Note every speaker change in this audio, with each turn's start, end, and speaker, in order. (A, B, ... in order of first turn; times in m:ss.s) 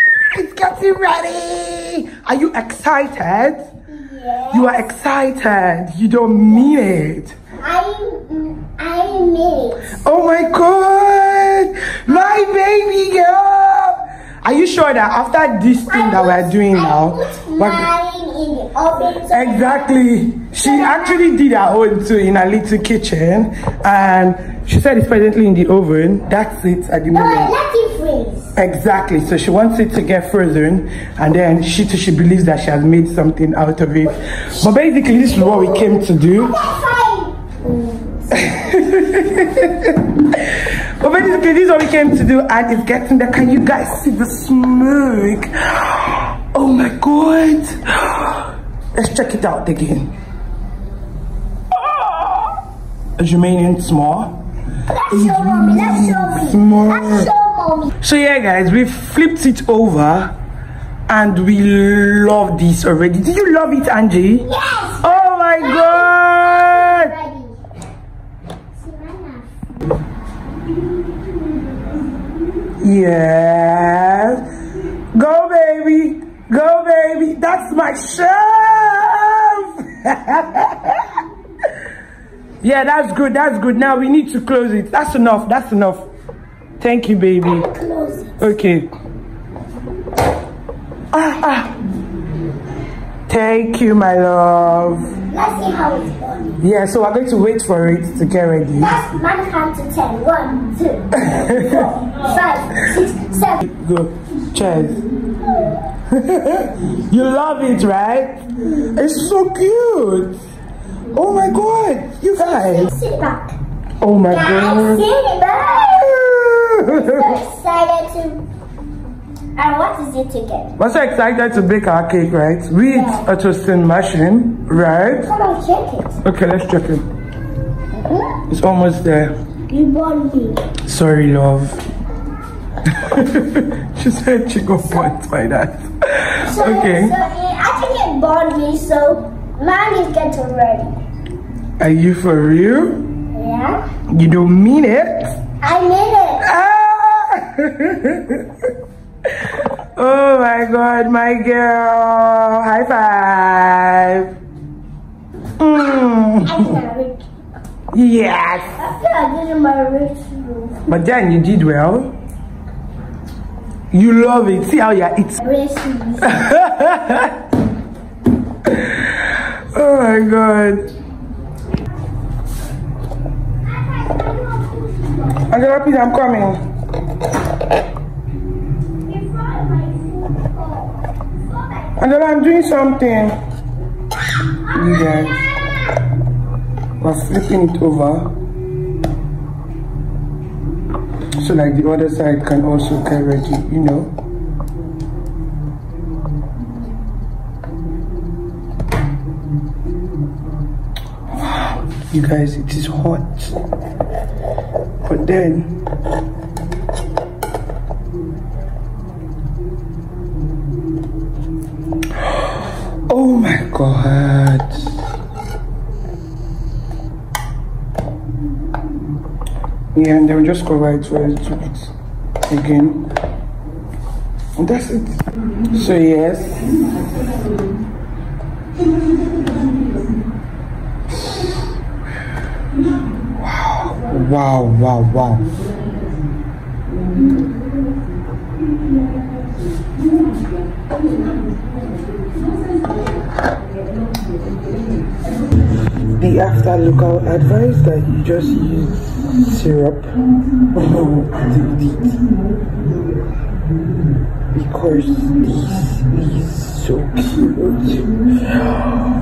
0:00.3-0:03.7 A
0:03.9-0:04.9 B
0:04.5-0:07.4 A
0:07.6-0:10.0 B
0:10.0-0:17.9 A
0:15.9-0:20.0 B
0:19.3-0:27.5 A
0:20.6-0:21.3 B
0:27.1-0:28.6 B
0:28.6-0:36.6 A
0:35.4-0:38.5 B
0:38.3-0:50.1 A
0:51.7-0:52.3 A
0:53.2-0:54.4 A
0:54.9-0:57.9 B
0:55.1-0:57.3 A
0:58.0-1:00.4 A
1:01.1-1:04.5 A
1:04.4-1:07.6 B
1:05.0-1:07.1 A
1:08.7-1:09.8 B
1:12.8-1:21.2 A
1:22.6-1:26.1 A
1:26.8-1:27.7 A
1:27.4-1:28.6 B
1:28.4-1:28.9 A
1:31.1-1:31.7 A
1:33.3-1:35.1 A
1:35.3-1:36.6 B
1:36.6-1:39.0 A
1:38.8-1:43.6 B
1:41.1-1:42.0 A
1:43.6-1:45.0 A
1:45.4-1:45.9 B
1:46.1-1:50.4 A
1:51.1-1:52.9 A
1:52.4-1:53.6 B
1:54.0-1:55.1 A
1:54.3-1:56.2 B
1:55.8-1:57.4 A
1:56.8-1:58.4 B
1:59.6-2:00.8 B
2:00.8-2:05.3 A
2:02.8-2:03.3 B
2:05.2-2:06.2 B
2:06.2-2:07.0 A
2:08.0-2:08.4 B
2:08.5-2:09.3 A
2:09.7-2:10.7 B
2:10.8-2:11.8 A
2:12.8-2:17.2 A
2:16.4-2:20.9 B
2:21.8-2:23.1 A
2:23.3-2:23.8 B
2:24.1-2:25.4 A
2:25.6-2:26.5 B
2:26.4-2:28.7 A
2:29.4-2:34.4 A
2:35.6-2:36.8 A
2:36.4-2:37.3 B
2:37.9-2:38.8 A
2:38.8-2:40.9 B
2:40.9-2:42.1 A
2:43.9-2:45.4 A
2:45.4-2:46.5 B
2:46.2-2:47.4 A
2:48.7-2:50.9 A
2:53.6-2:55.5 B
2:55.4-2:56.6 A
2:59.0-3:02.0 B
3:02.0-3:03.4 A
3:04.6-3:06.0 B
3:04.7-3:05.5 A
3:07.0-3:08.3 A
3:11.4-3:14.1 A
3:22.1-3:23.6 A
3:25.0-3:25.8 A
3:32.2-3:35.0 A
3:39.9-3:41.9 A
3:42.4-3:43.1 A
3:44.6-3:46.7 A
3:53.4-3:55.5 A
4:06.2-4:10.1 A
4:10.7-4:12.2 A
4:14.5-4:18.9 A